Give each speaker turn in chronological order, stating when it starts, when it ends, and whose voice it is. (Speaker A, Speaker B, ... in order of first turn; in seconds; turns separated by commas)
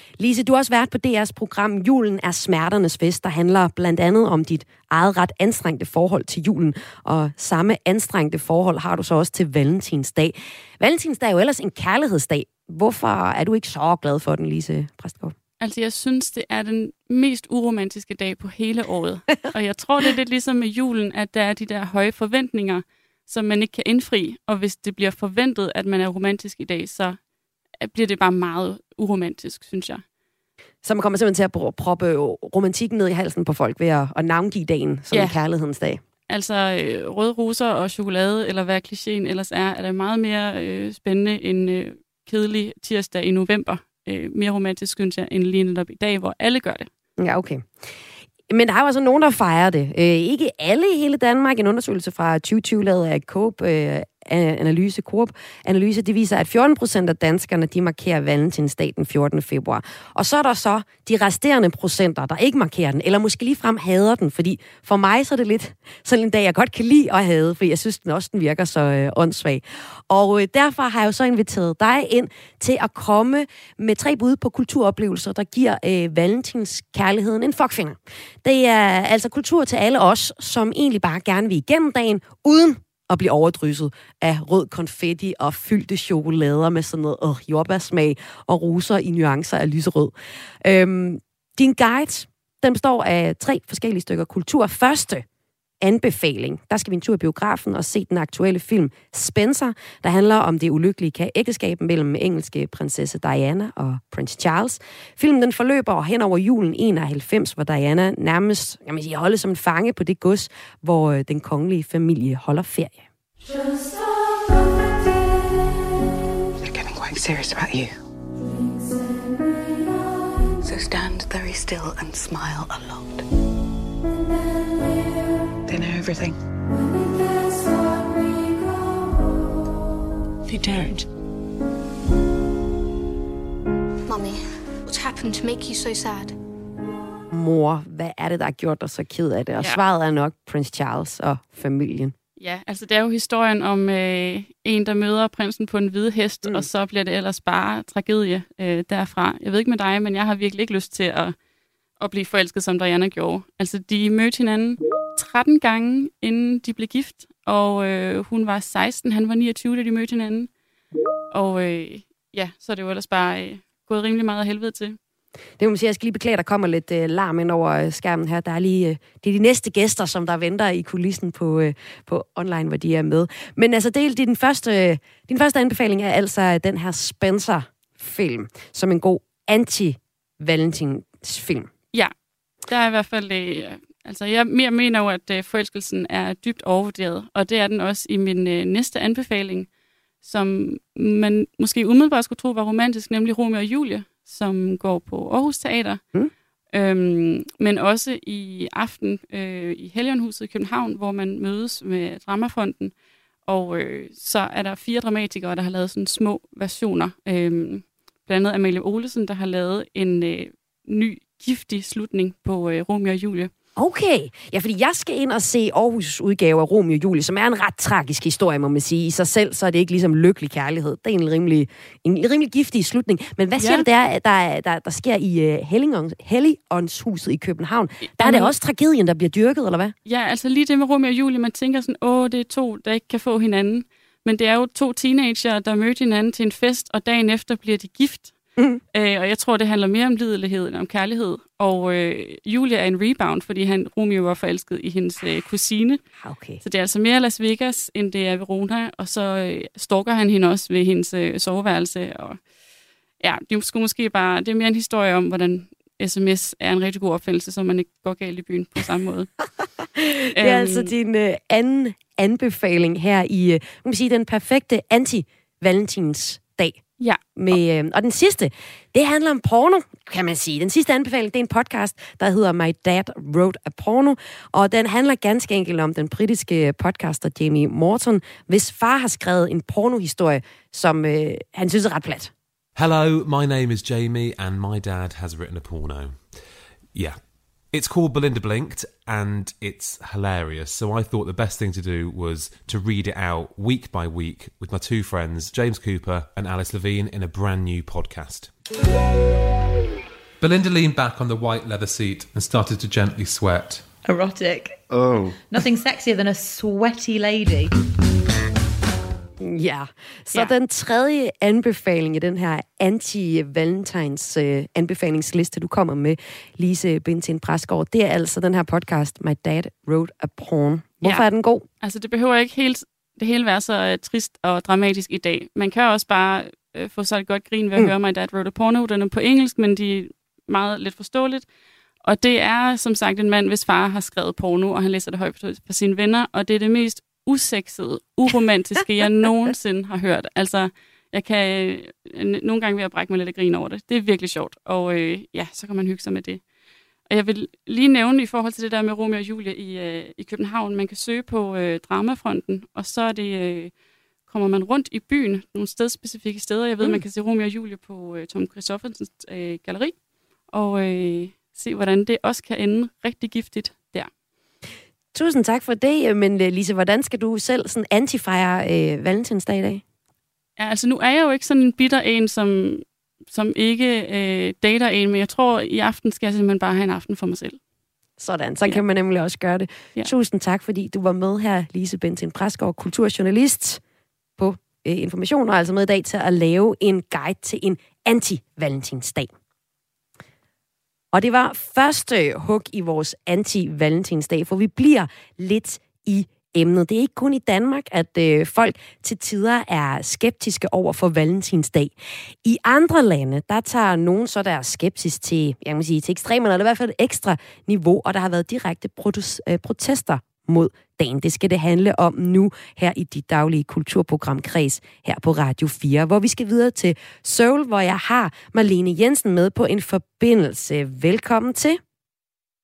Speaker A: 0.2-15.3, Speaker B: 15.6-27.3, Speaker B: 27.8-30.1, Speaker A: 30.8-36.0, Speaker B: 35.1-35.4, Speaker B: 36.3-46.9, Speaker A: 47.2-47.7, Speaker A: 48.5-95.2, Speaker A: 95.8-113.1, Speaker C: 116.6-117.9, Speaker C: 120.6-123.2, Speaker C: 125.7-126.4, Speaker C: 130.5-131.1, Speaker D: 134.1-136.4, Speaker A: 137.3-142.2, Speaker B: 142.4-151.4, Speaker B: 152.0-160.5, Speaker B: 161.3-165.0, Speaker A: 165.6-181.7, Speaker B: 181.9-189.7, Speaker B: 190.2-196.0, Speaker B: 196.7-213.5, Speaker A: 213.8-229.9, Speaker B: 223.6-223.8, Speaker B: 228.1-228.5, Speaker B: 230.1-238.4, Speaker B: 238.9-246.0, Speaker A: 246.2-246.6, Speaker B: 246.6-252.4, Speaker B: 253.2-259.3, Speaker A: 260.0-266.8, Speaker B: 260.4-260.9, Speaker A: 267.4-282.3, Speaker E: 282.8-298.6, Speaker E: 300.4-303.8, Speaker F: 304.0-304.9, Speaker F: 305.5-307.8, Speaker A: 309.4-321.7, Speaker B: 321.8-331.5, Speaker B: 332.0-346.5, Speaker B: 347.1-364.1, Speaker A: 365.1-369.8, Speaker B: 370.6-377.6, Speaker A: 378.2-383.8, Speaker A: 384.4-389.3, Speaker A: 391.1-421.8